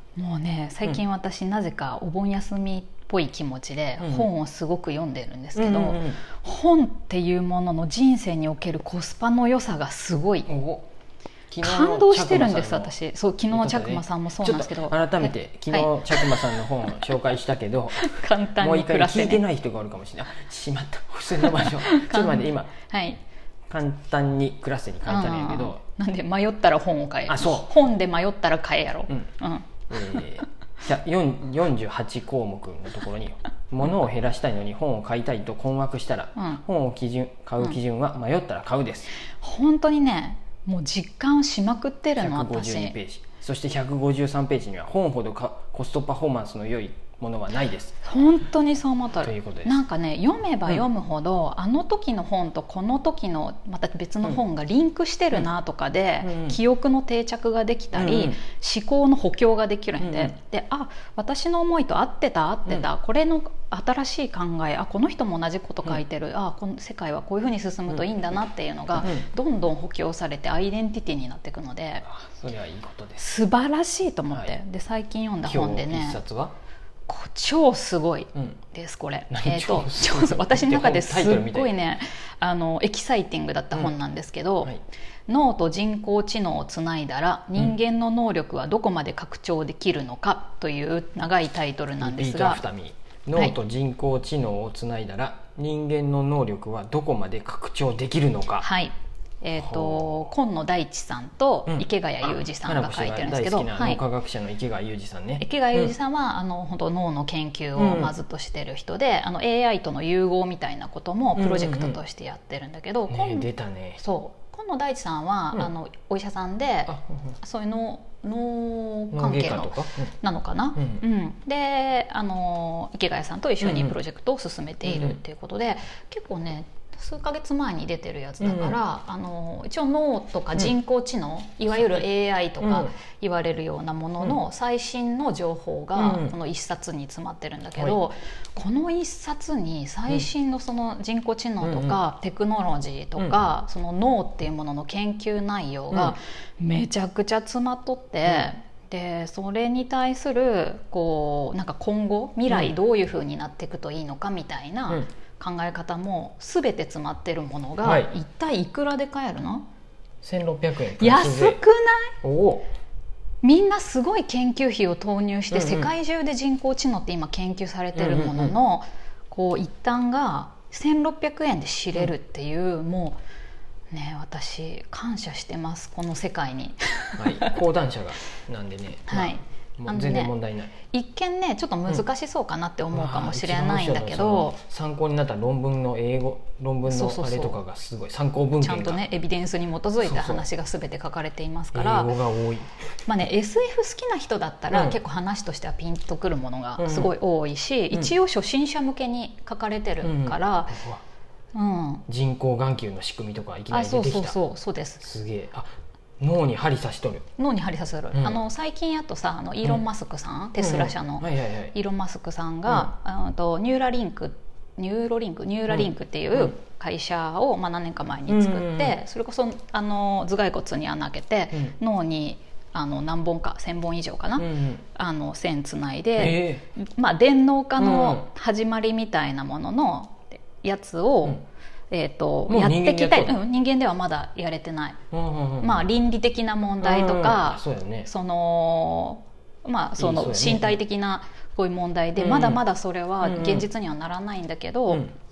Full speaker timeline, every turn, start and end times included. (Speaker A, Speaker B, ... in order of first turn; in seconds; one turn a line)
Speaker A: 0.2-10.5
Speaker B: 4.0-4.3
Speaker B: 5.5-6.2
Speaker B: 10.5-10.9
Speaker B: 11.5-12.9
Speaker A: 11.6-16.7
Speaker B: 13.5-22.7
Speaker A: 18.0-19.4
Speaker A: 21.4-23.2
Speaker B: 23.7-25.8
Speaker A: 25.1-30.4
Speaker B: 27.3-27.7
Speaker B: 29.9-39.1
Speaker A: 36.4-36.6
Speaker A: 39.3-43.0
Speaker B: 42.2-48.0
Speaker A: 48.0-72.0
Speaker B: 49.2-49.8
Speaker B: 56.2-56.6
Speaker B: 57.9-58.4
Speaker B: 60.0-60.3
Speaker B: 72.0-73.2
Speaker A: 73.2-76.2
Speaker B: 75.5-76.5
Speaker A: 77.1-84.7
Speaker B: 79.3-81.7
Speaker A: 85.3-92.6
Speaker B: 92.0-98.7
Speaker A: 98.6-104.0
Speaker B: 99.6-100.2
Speaker B: 101.7-105.9
Speaker A: 105.4-116.9
Speaker B: 107.8-108.1
Speaker B: 111.4-112.0
Speaker B: 113.1-114.0
Speaker B: 116.9-117.3
Speaker A: 117.4-159.7
Speaker B: 119.1-120.1
Speaker B: 120.8-121.0
Speaker B: 123.6-124.0
Speaker B: 124.8-125.2
Speaker B: 128.4-128.8
Speaker B: 132.6-132.9
Speaker B: 136.0-136.3
Speaker B: 141.6-142.0
Speaker B: 143.2-143.4
Speaker B: 157.8-158.1
Speaker B: 160.2-161.6
Speaker A: 161.0-162.1
Speaker B: 162.2-162.7
Speaker A: 163.4-173.2
Speaker B: 165.5-165.9
Speaker B: 168.0-168.5
Speaker A: 173.9-177.6
Speaker B: 177.2-180.7
Speaker A: 179.1-180.3
Speaker A: 180.9-184.6
Speaker B: 182.9-189.0
Speaker A: 186.9-187.6
Speaker A: 188.6-192.1
Speaker B: 190.0-190.4
Speaker B: 191.7-192.7
Speaker A: 193.1-200.8
Speaker B: 194.7-195.0
Speaker B: 196.8-197.1
Speaker B: 200.0-201.0
Speaker A: 201.5-202.1
Speaker B: 202.1-204.4
Speaker A: 203.7-205.1
Speaker B: 205.0-207.2
Speaker A: 207.4-235.0
Speaker B: 210.6-211.7
Speaker B: 215.7-216.5
Speaker B: 218.3-219.0
Speaker B: 224.4-224.8
Speaker B: 226.2-226.6
Speaker B: 227.8-228.3
Speaker B: 232.5-233.4
Speaker B: 235.1-235.9
Speaker A: 235.6-245.1
Speaker B: 236.8-238.1
Speaker B: 240.0-240.8
Speaker B: 242.2-242.6
Speaker B: 243.2-243.7